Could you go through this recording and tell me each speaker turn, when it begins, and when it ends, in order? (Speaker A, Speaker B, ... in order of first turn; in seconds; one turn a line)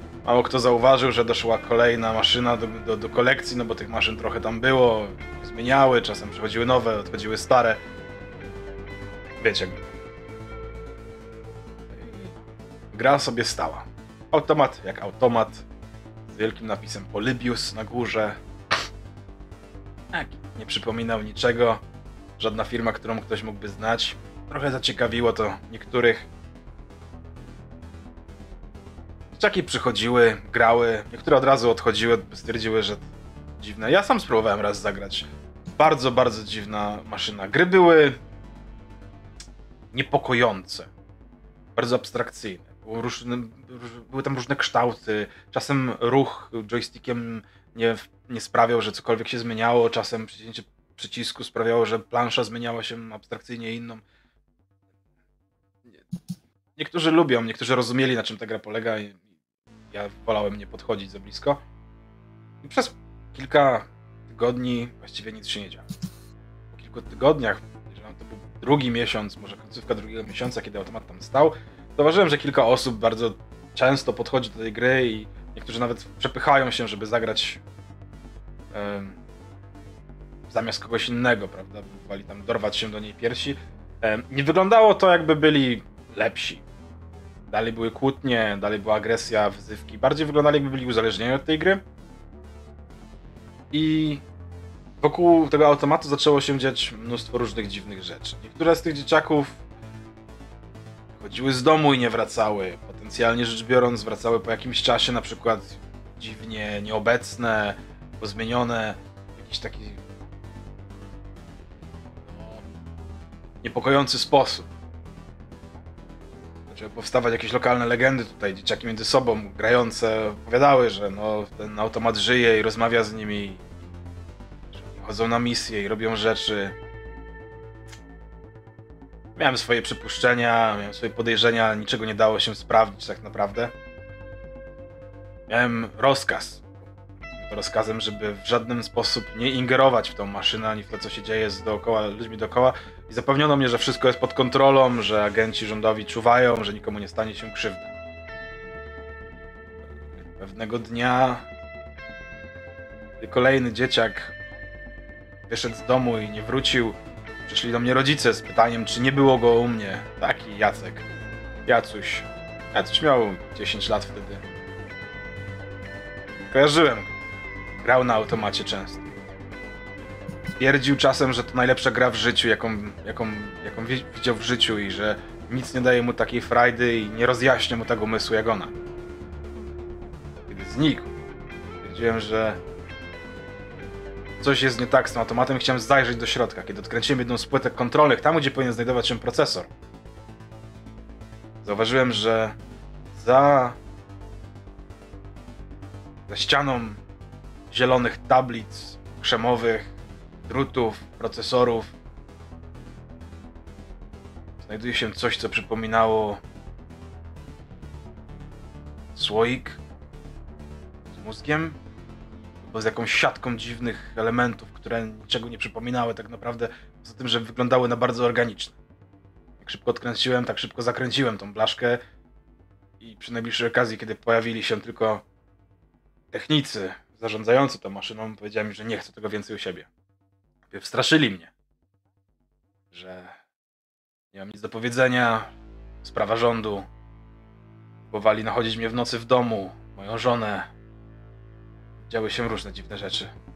Speaker A: 0.2-7.8
Speaker A: 9.4-9.8
Speaker A: 11.9-12.3
Speaker A: 12.9-15.6
Speaker A: 16.3-18.4
Speaker A: 20.1-21.8
Speaker A: 22.4-26.3
Speaker A: 29.3-33.0
Speaker A: 33.6-35.2
Speaker A: 35.8-38.2
Speaker A: 39.9-40.9
Speaker A: 41.8-54.0
Speaker A: 56.8-59.1
Speaker A: 59.9-61.6
Speaker A: 62.6-65.9
Speaker A: 66.7-77.6
Speaker A: 78.7-79.2
Speaker A: 80.5-86.6
Speaker A: 87.5-91.8
Speaker A: 93.7-94.2
Speaker A: 95.0-99.6
Speaker A: 101.2-110.0
Speaker A: 112.3-112.6
Speaker A: 113.6-114.6
Speaker A: 116.7-123.6
Speaker A: 124.8-126.7
Speaker A: 129.4-133.7
Speaker A: 135.5-136.7
Speaker A: 137.4-147.9
Speaker A: 150.4-151.4
Speaker A: 153.2-154.3
Speaker A: 155.5-161.0
Speaker A: 161.7-164.4
Speaker A: 166.5-167.1
Speaker A: 167.8-169.1
Speaker A: 170.6-178.7
Speaker A: 180.5-181.1
Speaker A: 181.8-182.6
Speaker A: 184.4-189.7
Speaker A: 191.6-192.5
Speaker A: 193.1-193.8
Speaker A: 196.3-197.0
Speaker A: 197.7-199.9
Speaker A: 200.5-201.9
Speaker A: 204.6-206.4
Speaker A: 209.1-209.8
Speaker A: 211.1-211.8
Speaker A: 212.6-218.7
Speaker A: 219.6-222.0
Speaker A: 223.0-225.2
Speaker A: 226.3-229.9
Speaker A: 230.7-231.5
Speaker A: 232.9-233.3
Speaker A: 234.3-235.5
Speaker A: 236.0-236.8
Speaker A: 238.1-240.7
Speaker A: 242.1-243.3